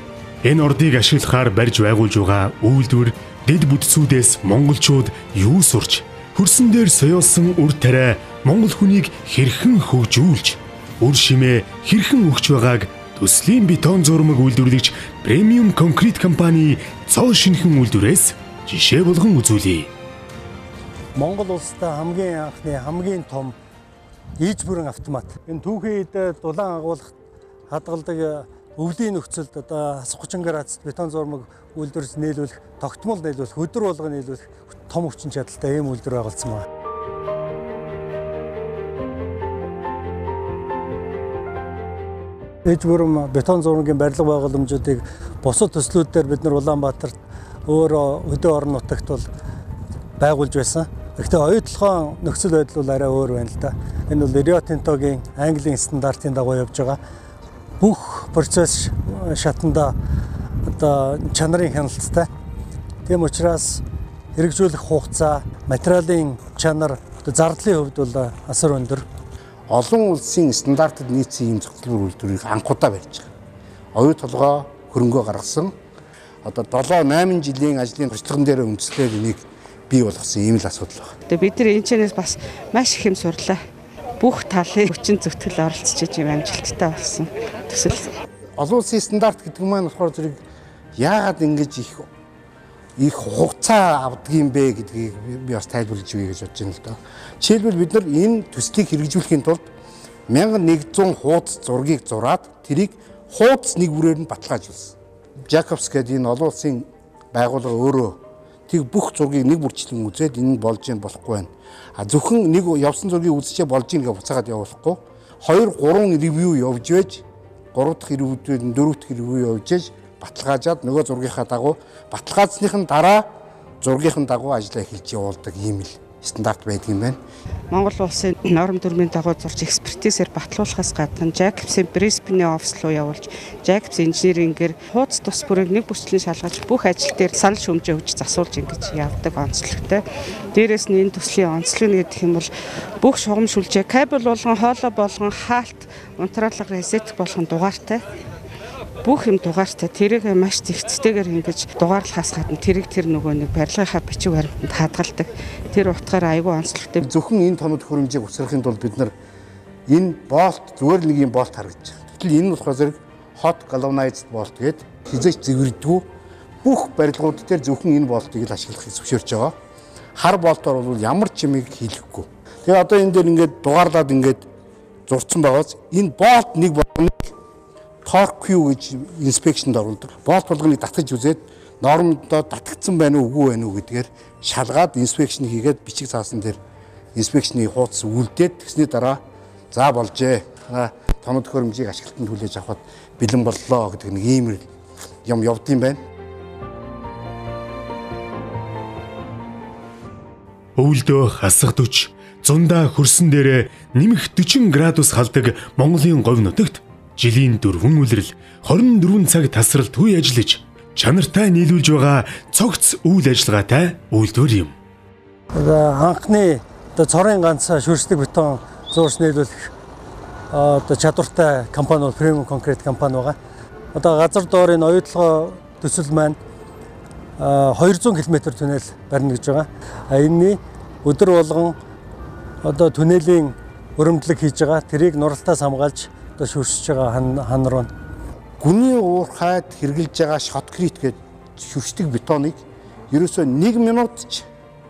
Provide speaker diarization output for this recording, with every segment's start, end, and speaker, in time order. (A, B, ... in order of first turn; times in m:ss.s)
0:00.4-0:19.9 A
0:21.2-0:23.6 B
0:24.4-0:27.2 B
0:27.7-0:36.6 B
0:42.6-0:47.1 B
0:47.7-0:49.3 B
0:50.2-0:57.0 B
0:57.8-1:00.0 B
1:00.6-1:02.3 B
1:03.0-1:03.8 B
1:04.4-1:09.0 B
1:09.7-1:13.3 C
1:13.9-1:15.7 C
1:16.4-1:21.1 C
1:21.3-1:23.6 D
1:24.2-1:28.0 D
1:28.6-1:30.4 C
1:31.0-1:32.1 C
1:33.0-1:39.7 C
1:40.3-1:45.0 C
1:45.5-2:03.2 C
2:03.8-2:07.2 C
2:07.7-2:20.0 D
2:20.5-2:22.5 D
2:23.0-2:28.0 D
2:29.0-2:37.0 D
2:37.0-2:39.1 C
2:39.9-2:46.1 C
2:46.6-2:49.5 C
2:50.2-2:54.4 C
2:55.1-2:57.3 C
2:58.0-3:06.6 C
3:07.2-3:09.2 C
3:09.7-3:14.6 C
3:15.2-3:16.0 C
3:20.8-3:34.7 A
3:35.6-3:39.7 B
3:40.5-3:43.4 B
3:43.9-3:46.4 B
3:47.4-3:51.8 B
3:52.6-3:57.9 B
3:58.6-4:02.6 C
4:03.1-4:04.5 C